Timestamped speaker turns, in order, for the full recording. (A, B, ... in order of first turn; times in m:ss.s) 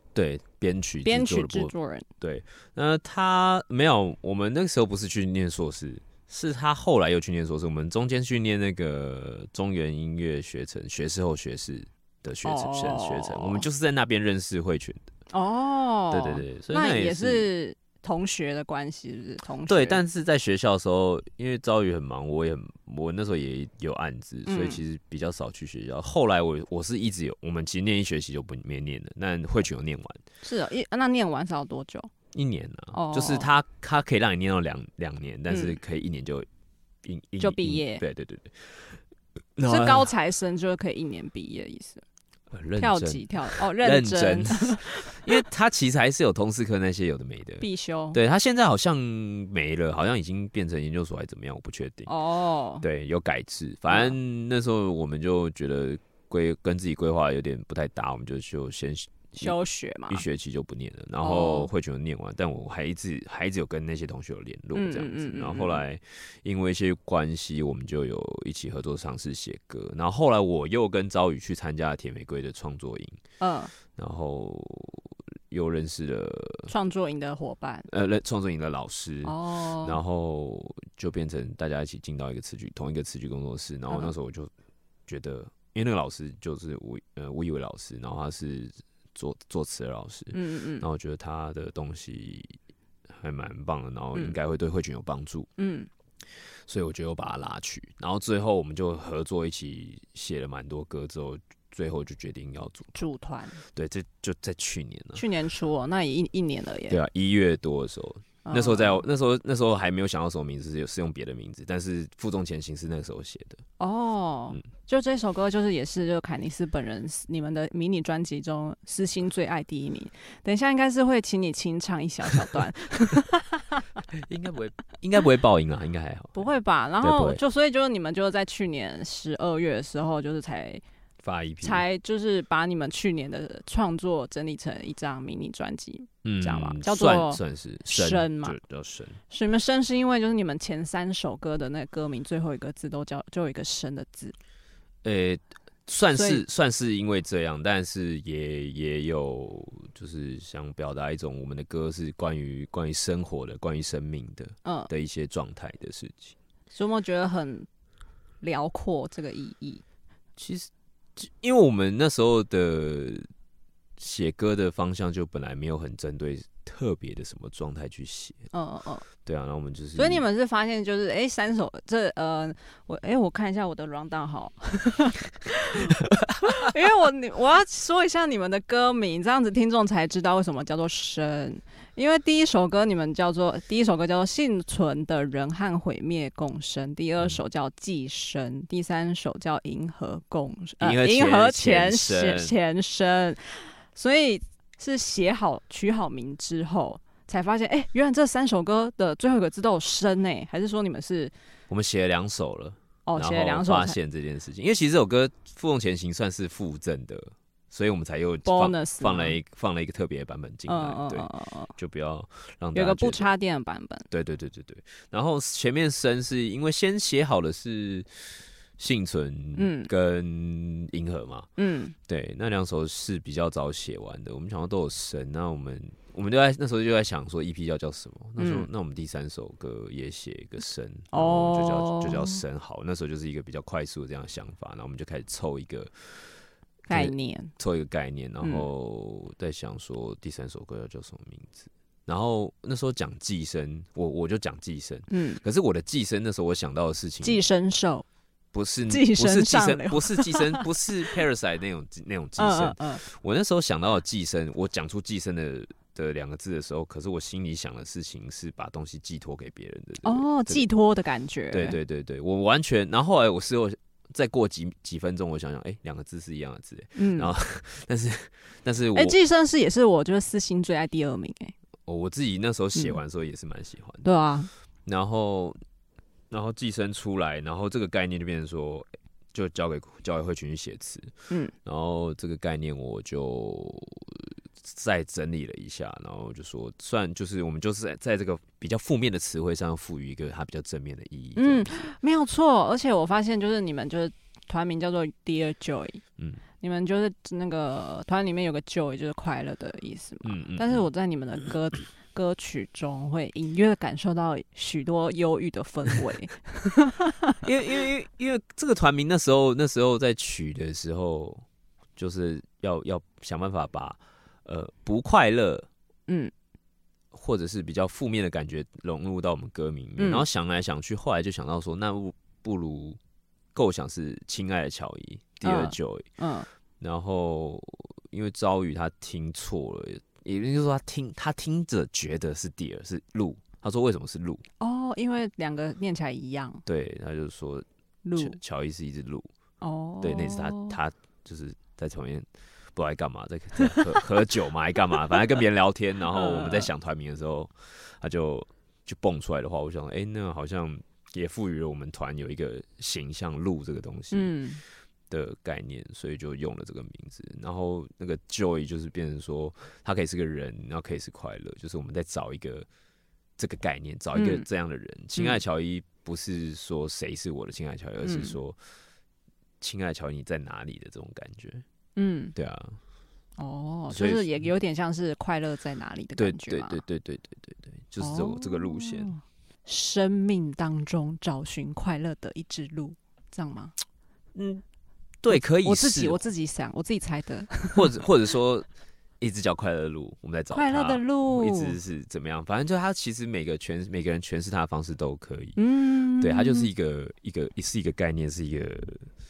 0:00.1-0:15.0 A
0:01.0-0:02.1 B
0:12.4-0:13.6 B
0:15.3-0:20.0 B
0:16.1-0:17.5 A
0:19.6-0:30.2 A
0:24.5-0:24.8 B
0:30.4-0:32.1 B
0:32.3-0:36.5 A
0:32.9-0:33.5 B
0:35.5-0:35.8 B
0:37.0-0:39.0 A
0:37.4-0:38.0 B
0:39.6-0:40.1 A
0:39.7-0:42.0 B
0:42.5-0:52.1 A
0:42.8-0:45.4 B
0:47.6-0:48.2 B
0:52.1-0:52.8 B
0:52.8-0:59.5 A
0:53.9-0:54.2 B
0:59.4-1:00.2 B
1:00.1-1:13.2 A
1:01.2-1:01.7 B
1:04.7-1:05.8 B
1:13.4-1:13.7 B
1:13.9-1:16.7 A
1:16.7-1:17.9 B
1:17.9-1:24.5 A
1:19.2-1:20.0 B
1:25.1-1:32.6 A
1:30.3-1:30.8 B
1:33.1-1:35.5 A
1:35.6-1:35.9 B
1:36.7-1:43.0 A
1:42.9-1:43.6 B
1:43.7-1:45.2 A
1:45.1-1:47.0 B
1:46.9-1:53.6 A
1:48.4-1:49.0 B
1:53.8-2:03.8 B
2:04.1-2:06.4 A
2:06.3-2:10.8 B
2:07.0-2:07.4 A
2:11.2-2:11.8 A
2:11.6-2:18.6 B
2:16.2-2:19.2 A
2:19.3-2:24.3 B
2:25.0-2:36.3 A
2:26.1-2:26.4 B
2:34.6-2:34.9 B
2:36.7-2:37.7 B
2:38.4-2:39.8 B
2:40.4-2:43.3 A
2:44.0-2:48.5 A
2:48.5-2:49.1 B
2:49.2-2:50.2 A
2:50.0-3:21.3 B
2:56.1-2:56.6 A
3:10.8-3:12.5 A
3:21.7-3:33.3 A
3:23.0-3:24.0 B
3:28.4-3:29.4 B
3:30.7-3:31.7 B
3:32.7-3:34.1 B
3:34.1-3:41.5 A
3:39.6-3:39.9 B
3:41.6-3:41.9 B
3:42.1-4:07.4 A
3:48.4-3:48.7 B
3:51.1-3:52.4 B
3:56.9-3:57.5 B
3:58.4-3:58.6 B
4:05.1-4:05.4 B
4:07.2-4:08.0 B
4:08.5-4:20.7 A
4:08.9-4:10.7 B
4:12.4-4:13.0 B
4:20.0-4:21.8 B
4:21.5-4:29.1 A
4:27.0-4:27.3 B
4:28.9-4:31.5 B
4:31.9-4:34.0 A
4:34.0-4:34.5 B
4:34.8-4:35.6 A
4:36.3-4:51.8 A
4:51.4-4:56.0 B
4:56.6-5:07.4 B
5:00.2-5:00.9 A
5:07.4-5:11.4 A
5:12.0-5:15.7 A
5:16.1-5:16.3 B
5:17.1-5:23.0 A
5:20.0-5:20.2 B
5:23.5-5:26.0 A
5:25.4-5:26.5 B
5:26.8-5:34.4 A
5:34.6-5:36.6 B
5:36.6-5:37.6 A
5:38.0-5:38.4 B
5:38.2-5:39.3 A
5:39.6-5:40.8 B
5:40.0-5:54.3 A
5:46.1-5:46.7 B
5:54.1-5:54.6 B
5:55.1-6:02.7 A
6:03.4-6:08.6 A
6:04.1-6:04.4 B
6:08.0-6:08.3 B
6:09.6-6:11.6 A
6:12.0-6:12.3 B
6:12.3-6:12.8 A
6:13.4-6:16.8 B
6:13.9-6:14.4 A
6:16.2-6:19.1 A
6:18.0-6:23.7 B
6:24.3-6:24.6 A
6:25.2-6:26.2 A
6:25.3-6:28.0 B
6:27.7-6:28.7 A
6:29.2-6:35.6 A
6:30.5-6:31.8 B
6:35.6-6:36.7 B
6:36.2-6:39.1 A